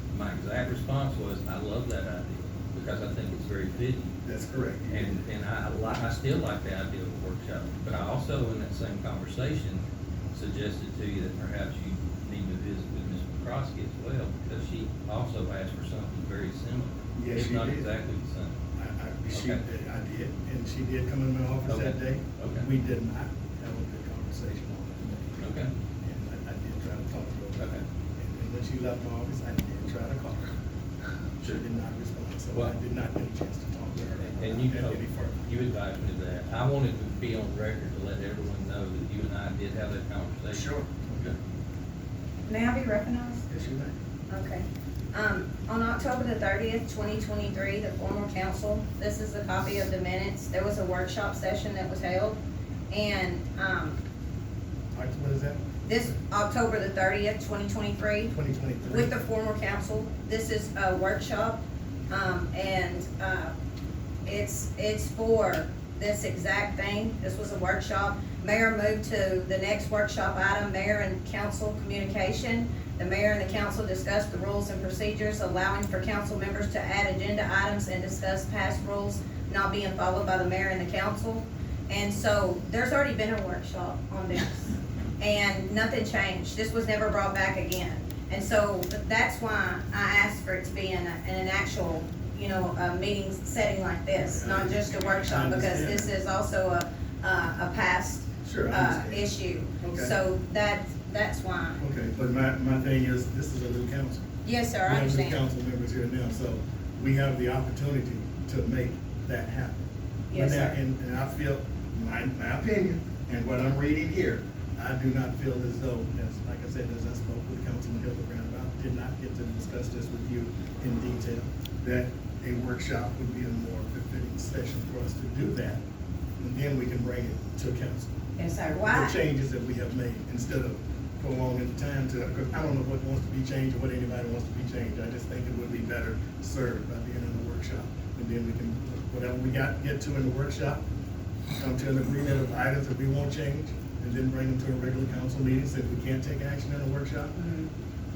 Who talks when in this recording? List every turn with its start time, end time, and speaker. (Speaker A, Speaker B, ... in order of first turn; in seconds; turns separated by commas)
Speaker A: 0.1-4.1, Speaker B: 4.2-5.2, Speaker A: 4.9-18.5, Speaker B: 17.1-17.9, Speaker B: 18.8-25.4, Speaker A: 19.3-19.6, Speaker A: 21.7-22.7, Speaker A: 25.4-25.7, Speaker B: 26.0-30.5, Speaker A: 27.6-27.8, Speaker B: 31.5-35.4, Speaker A: 33.9-41.3, Speaker B: 40.5-41.3, Speaker C: 42.5-43.5, Speaker B: 43.5-43.9, Speaker C: 44.3-52.4, Speaker C: 52.9-54.0, Speaker B: 54.9-55.6, Speaker C: 55.8-58.3, Speaker B: 58.3-59.1, Speaker C: 58.9-63.5, Speaker C: 64.2-101.8, Speaker B: 94.1-96.1, Speaker B: 98.4-99.3, Speaker B: 99.8-100.1, Speaker B: 101.8-104.2, Speaker C: 104.4-105.4, Speaker B: 104.8-109.8, Speaker C: 110.3-110.8, Speaker B: 110.3-125.8, Speaker B: 126.4-128.1, Speaker C: 128.4-129.2, Speaker B: 128.9-140.8, Speaker B: 141.6-147.4, Speaker C: 147.3-147.7